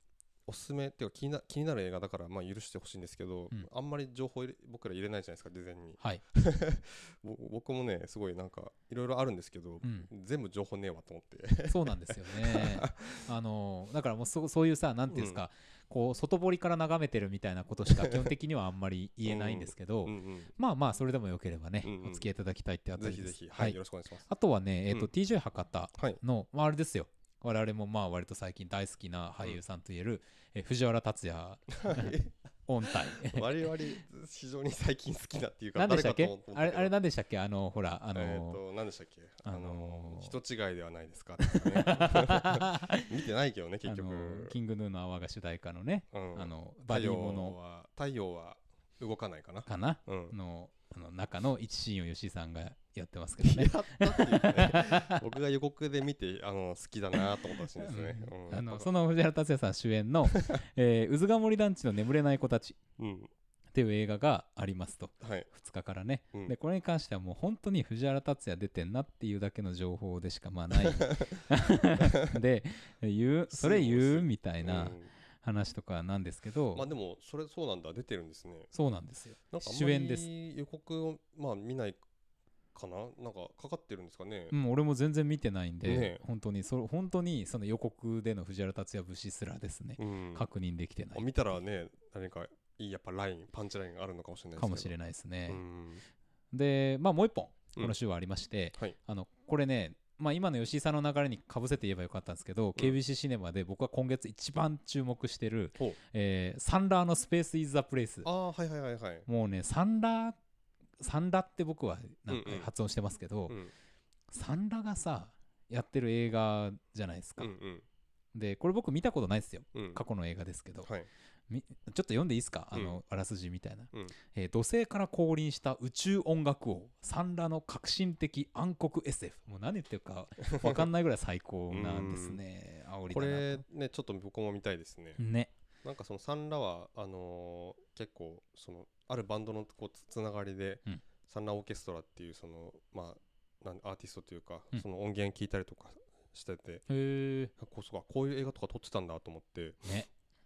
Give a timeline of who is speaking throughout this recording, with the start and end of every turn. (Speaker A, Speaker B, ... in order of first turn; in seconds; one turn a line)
Speaker A: 0.5-13.3
Speaker B: 9.8-10.1
Speaker B: 11.7-33.7
Speaker A: 15.1-15.4
Speaker A: 18.0-18.3
Speaker A: 19.2-20.5
Speaker A: 21.8-22.3
Speaker A: 23.0-24.3
Speaker A: 31.8-36.9
Speaker B: 35.8-38.6
Speaker A: 38.1-44.6
Speaker B: 39.4-40.4
Speaker B: 41.4-43.1
Speaker B: 43.9-47.6
Speaker A: 46.1-50.4
Speaker B: 49.7-55.2
Speaker A: 53.4-58.9
Speaker B: 57.8-62.8
Speaker A: 60.3-60.6
Speaker A: 63.0-63.3
Speaker B: 63.7-76.9
Speaker A: 65.2-65.5
Speaker A: 70.8-71.4
Speaker A: 72.0-72.4
Speaker A: 73.5-75.1
Speaker A: 76.7-78.7
Speaker B: 78.7-80.3
Speaker A: 79.5-82.0
Speaker A: 82.8-84.5
Speaker B: 84.5-91.3
Speaker A: 85.8-86.2
Speaker A: 90.0-90.5
Speaker A: 91.2-95.0
Speaker B: 94.6-95.6
Speaker A: 95.5-96.0
Speaker B: 96.5-108.3
Speaker A: 108.2-109.3
Speaker B: 109.3-110.4
Speaker B: 111.0-113.6
Speaker A: 112.3-112.7
Speaker B: 114.3-117.5
Speaker A: 117.4-117.9
Speaker B: 118.3-120.9
Speaker A: 119.8-120.0
Speaker B: 121.5-133.6
Speaker A: 122.7-123.0
Speaker A: 130.6-130.9
Speaker A: 131.7-132.4
Speaker A: 133.1-135.2
Speaker B: 135.2-135.5
Speaker A: 135.8-146.8
Speaker B: 146.9-147.5
Speaker A: 147.6-149.9